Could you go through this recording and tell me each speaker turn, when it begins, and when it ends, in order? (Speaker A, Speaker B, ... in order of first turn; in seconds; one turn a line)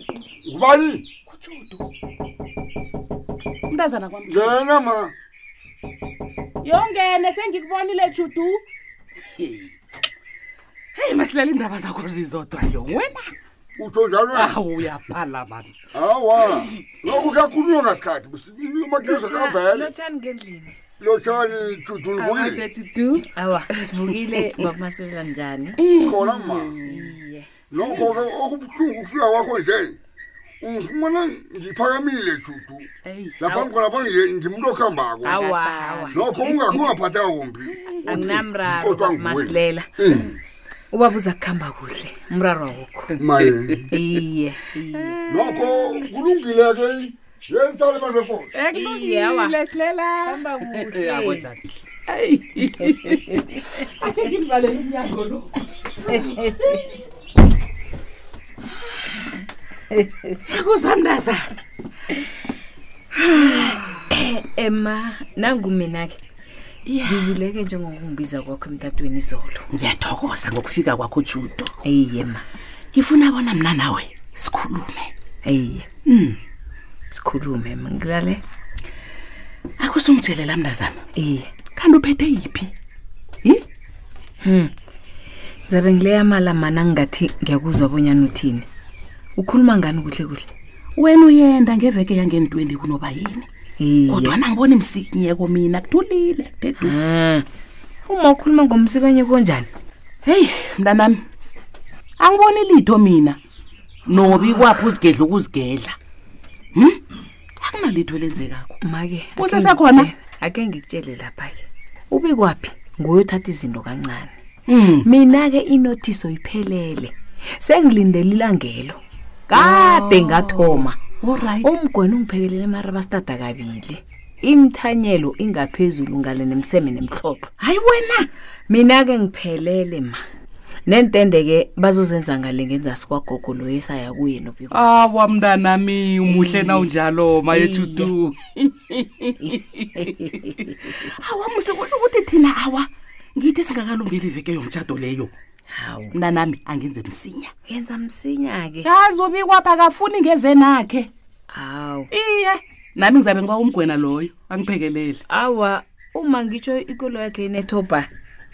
Speaker A: 0.3-1.0
Speaker B: 1.3-1.9
Speaker B: 3.7-4.6
Speaker A: 4.3-5.1
Speaker B: 6.6-8.6
Speaker B: 9.4-9.7
Speaker B: 10.9-13.3
Speaker A: 13.8-14.6
Speaker B: 14.3-15.7
Speaker A: 15.9-19.9
Speaker C: 19.0-20.8
Speaker A: 21.0-22.6
Speaker B: 22.2-23.2
Speaker C: 23.2-25.8
Speaker B: 23.8-24.6
Speaker B: 25.8-27.2
Speaker A: 25.9-26.7
Speaker C: 26.8-27.5
Speaker A: 27.7-29.9
Speaker A: 30.6-32.9
Speaker B: 33.0-33.6
Speaker A: 33.4-35.4
Speaker C: 35.2-36.2
Speaker B: 35.2-36.9
Speaker A: 36.1-40.4
Speaker B: 37.8-38.4
Speaker C: 38.1-39.9
Speaker C: 40.9-43.1
Speaker A: 43.2-43.9
Speaker B: 43.4-43.8
Speaker C: 43.9-45.2
Speaker B: 45.0-45.8
Speaker A: 45.3-48.5
Speaker B: 48.5-57.0
Speaker C: 48.7-49.6
Speaker C: 50.2-51.5
Speaker B: 60.4-61.5
Speaker B: 63.4-63.7
Speaker C: 63.4-66.2
Speaker B: 66.9-67.3
Speaker C: 67.0-69.7
Speaker B: 69.7-71.8
Speaker C: 71.8-72.4
Speaker B: 72.9-75.1
Speaker C: 75.4-75.9
Speaker B: 76.1-76.4
Speaker C: 77.1-78.4
Speaker B: 79.8-81.0
Speaker C: 81.1-81.5
Speaker B: 81.7-82.7
Speaker C: 84.4-84.7
Speaker C: 85.7-88.7
Speaker C: 89.3-90.5
Speaker B: 91.0-93.5
Speaker C: 93.8-94.3
Speaker B: 94.1-96.9
Speaker C: 96.8-97.4
Speaker C: 98.0-99.7
Speaker B: 100.2-101.2
Speaker B: 102.2-103.4
Speaker B: 104.1-106.0
Speaker C: 104.2-104.5
Speaker B: 106.7-107.0
Speaker B: 107.6-108.8
Speaker C: 108.8-114.3
Speaker B: 109.4-110.1
Speaker B: 114.7-115.1
Speaker C: 115.0-121.0
Speaker B: 119.5-121.7
Speaker C: 121.6-127.5
Speaker B: 127.6-128.3
Speaker C: 128.7-130.2
Speaker C: 130.8-134.9
Speaker B: 134.7-145.3
Speaker C: 136.3-136.9
Speaker C: 137.5-138.1
Speaker C: 145.7-146.1
Speaker B: 146.1-147.5
Speaker C: 147.7-148.9
Speaker B: 148.8-151.1
Speaker C: 151.5-152.1
Speaker B: 152.1-155.2
Speaker C: 155.3-158.1